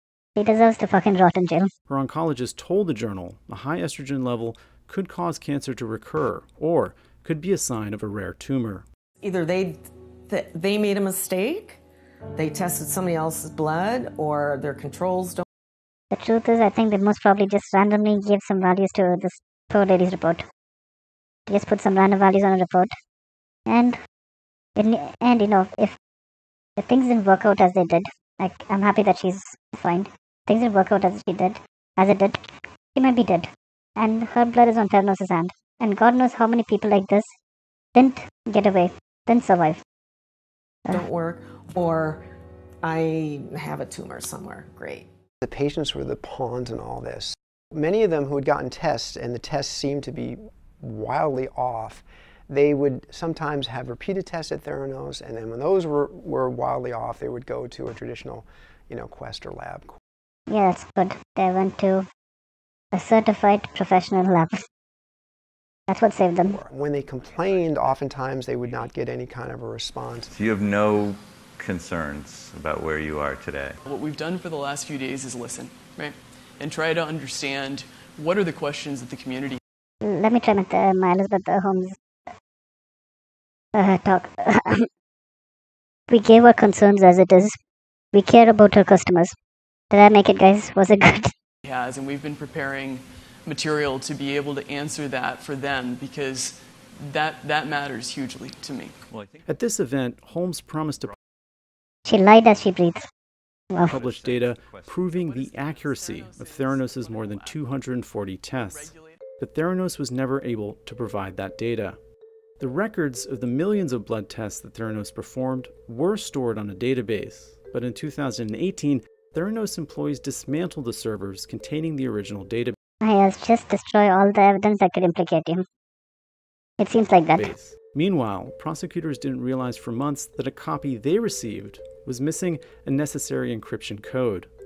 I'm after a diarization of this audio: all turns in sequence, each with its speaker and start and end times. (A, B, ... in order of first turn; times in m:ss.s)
0:00.4-0:01.7 A
0:01.9-0:08.8 B
0:09.2-0:11.8 C
0:12.4-0:15.4 C
0:16.1-0:20.4 A
0:21.5-0:22.9 A
0:23.7-0:24.0 A
0:24.8-0:26.0 A
0:26.8-0:37.3 A
0:38.0-0:39.8 A
0:40.9-0:42.2 C
0:42.8-0:45.1 C
0:45.4-0:59.9 D
1:00.5-1:02.1 A
1:02.9-1:04.6 A
1:05.9-1:06.6 A
1:06.5-1:10.3 D
1:07.2-1:07.7 E
1:10.3-1:13.8 E
1:13.8-1:19.6 F
1:20.0-1:22.0 A
1:23.8-1:24.9 A
1:26.1-1:27.6 A
1:28.1-1:29.4 A
1:29.9-1:31.3 A
1:31.6-1:39.0 F
1:39.1-1:39.5 E
1:39.5-1:41.1 B
1:42.1-1:43.1 A
1:43.8-1:45.2 E
1:43.8-1:52.0 B
1:45.1-1:47.8 F
1:48.6-1:49.2 F
1:52.6-2:02.8 B
2:03.0-2:05.6 A
2:06.8-2:07.5 A
2:07.4-2:14.5 B